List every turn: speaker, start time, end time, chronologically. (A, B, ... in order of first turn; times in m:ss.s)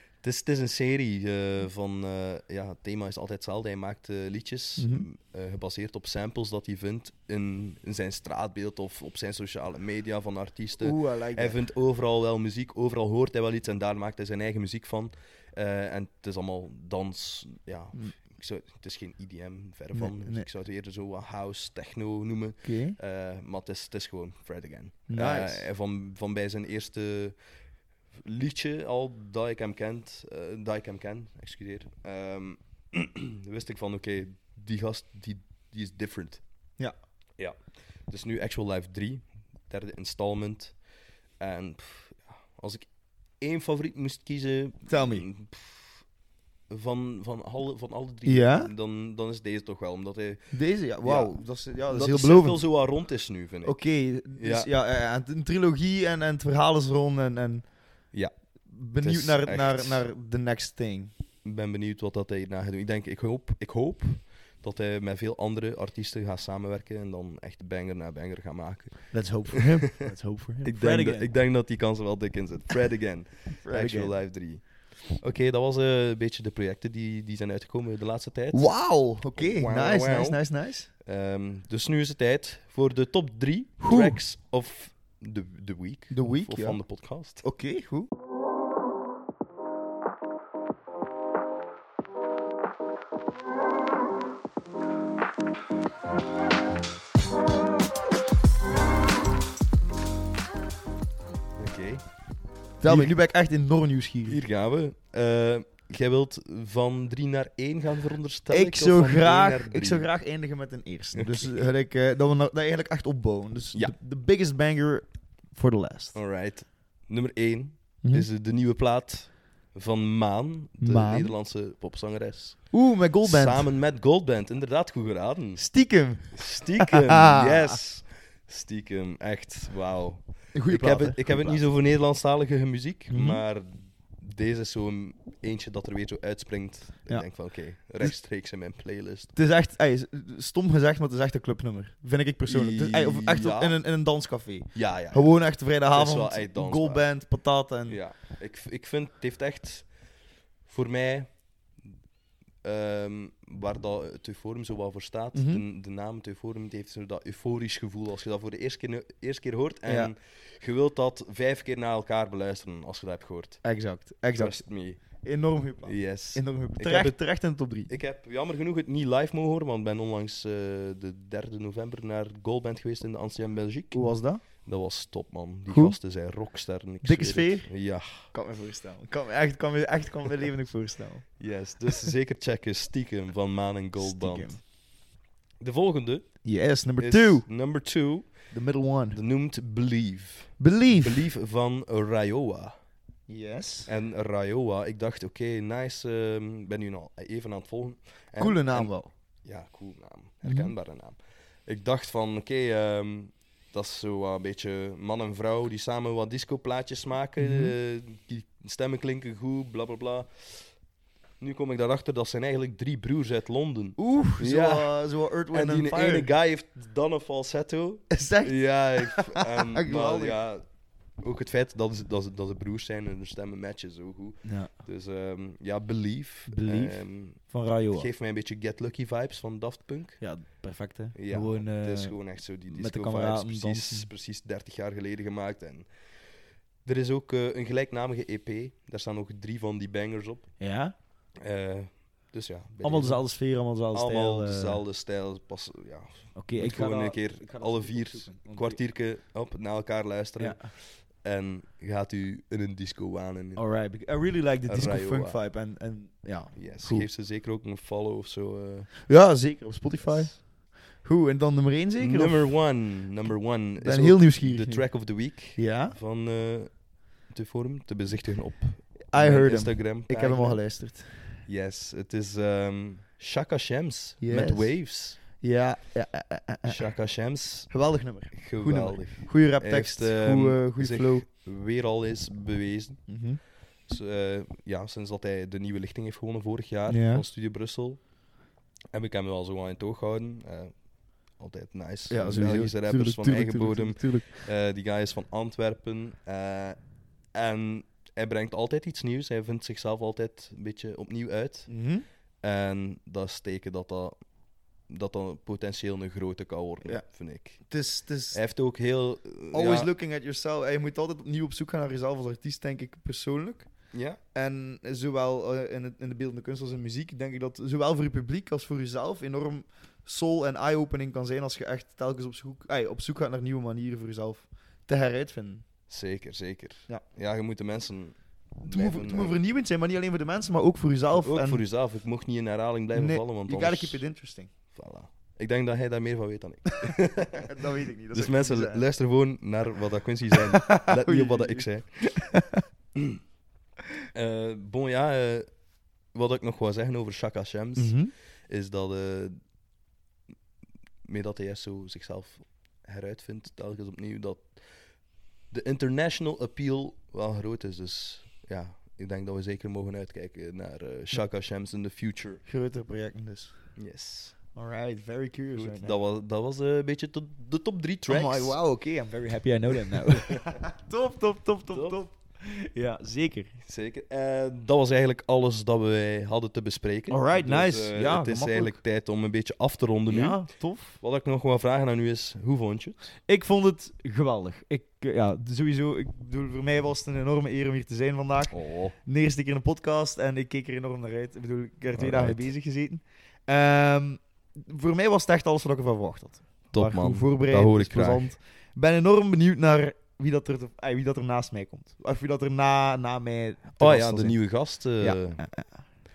0:00.2-0:27.4 A
0:04.8-0:05.1 B
0:10.8-0:11.6 B
0:19.9-0:20.4 B
0:22.6-0:23.0 B
0:25.1-0:25.6 B
0:28.2-0:36.4 A
0:38.1-0:40.8 A
0:41.4-0:42.9 A
0:43.4-0:46.0 A
0:44.9-0:45.2 B
0:46.7-0:54.7 A
0:48.2-0:48.7 B
0:50.5-0:52.6 B
0:53.6-0:57.7 B
0:58.1-1:00.0 A
0:58.7-1:01.1 B
1:01.4-1:09.6 A
1:09.1-1:11.3 B
1:10.6-1:20.4 A
1:13.6-1:14.1 B
1:18.5-1:20.9 B
1:21.0-1:27.4 A
1:23.8-1:24.2 B
1:26.1-1:28.1 B
1:41.5-1:42.0 A
1:42.8-1:44.4 B
1:42.8-1:43.1 A
1:44.3-1:50.1 A
1:48.5-1:56.2 B
1:51.1-1:51.6 A
1:56.1-2:19.3 A
1:58.0-1:58.3 B
2:00.8-2:01.3 B
2:02.7-2:03.7 B
2:05.6-2:07.8 B
2:10.5-2:11.6 B
2:13.1-2:13.4 B
2:17.1-2:18.2 B
2:19.3-2:28.0 B
2:22.4-2:23.8 A
2:24.7-2:27.1 A
2:27.8-2:29.9 A
2:30.6-2:31.5 A
2:32.6-2:43.6 A
2:35.3-2:35.6 B
2:39.8-2:40.1 B
2:43.6-2:47.9 B
2:44.3-2:45.2 A
2:45.8-2:58.3 A
2:53.9-2:54.4 B
2:55.7-2:56.0 B
2:57.0-3:01.3 B
3:01.4-3:04.6 A
3:04.0-3:04.6 B
3:05.6-3:06.4 A
3:06.4-3:07.4 B
3:07.0-3:08.5 A
3:08.5-3:09.2 B
3:09.1-3:12.7 A
3:10.6-3:11.3 B
3:13.3-3:13.9 B
3:13.8-3:30.7 A
3:18.4-3:19.1 B
3:20.4-3:20.7 B
3:27.4-3:27.7 B
3:31.4-3:50.2 A
3:34.0-3:36.3 B
3:38.1-3:40.4 B
3:44.4-3:44.7 B
3:46.5-3:48.1 B
3:50.2-3:54.1 B
3:51.1-3:55.9 A
3:56.8-4:00.6 A
4:00.6-4:00.9 B
4:01.4-4:03.3 A
4:02.8-4:04.8 B
4:03.9-4:13.6 A
4:06.3-4:08.8 B
4:10.4-4:10.7 B
4:13.6-4:17.1 B
4:14.6-4:15.4 A
4:16.5-4:18.9 A
4:19.0-4:22.6 B
4:22.0-4:30.8 A
4:23.8-4:25.9 B
4:29.1-4:31.4 B
4:31.4-4:35.2 A
4:34.2-4:36.9 B
4:36.6-4:43.3 A
4:37.7-4:41.2 B
4:43.1-4:43.4 B
4:43.8-4:48.1 A
4:46.9-4:47.2 B
4:48.9-5:01.8 A
4:52.1-4:54.5 B
5:01.7-5:02.0 B
5:02.4-5:04.2 A
5:04.8-5:07.8 A
5:06.8-5:08.4 B
5:08.3-5:09.9 A
5:09.5-5:25.6 B
5:13.9-5:14.2 A
5:25.9-5:29.4 A
5:28.6-5:31.6 B
5:31.1-5:34.1 A
5:32.9-5:34.5 B
5:34.7-5:37.4 A
5:37.3-5:38.8 B
5:38.1-5:42.1 A
5:40.5-5:42.6 B
5:44.1-5:49.4 A
5:47.8-5:48.1 B
5:51.0-6:02.4 A
6:02.4-6:03.7 B
6:03.8-6:04.4 A
6:04.5-6:06.0 B
6:05.5-6:08.6 A
6:08.1-6:13.5 B
6:09.8-6:10.4 A
6:11.7-6:12.0 A
6:13.6-6:23.2 A
6:17.1-6:18.8 B
6:20.1-6:21.0 B
6:23.2-6:45.8 B
6:28.5-6:29.0 A
6:31.9-6:32.5 A
6:36.7-6:38.3 A
6:43.8-6:45.6 A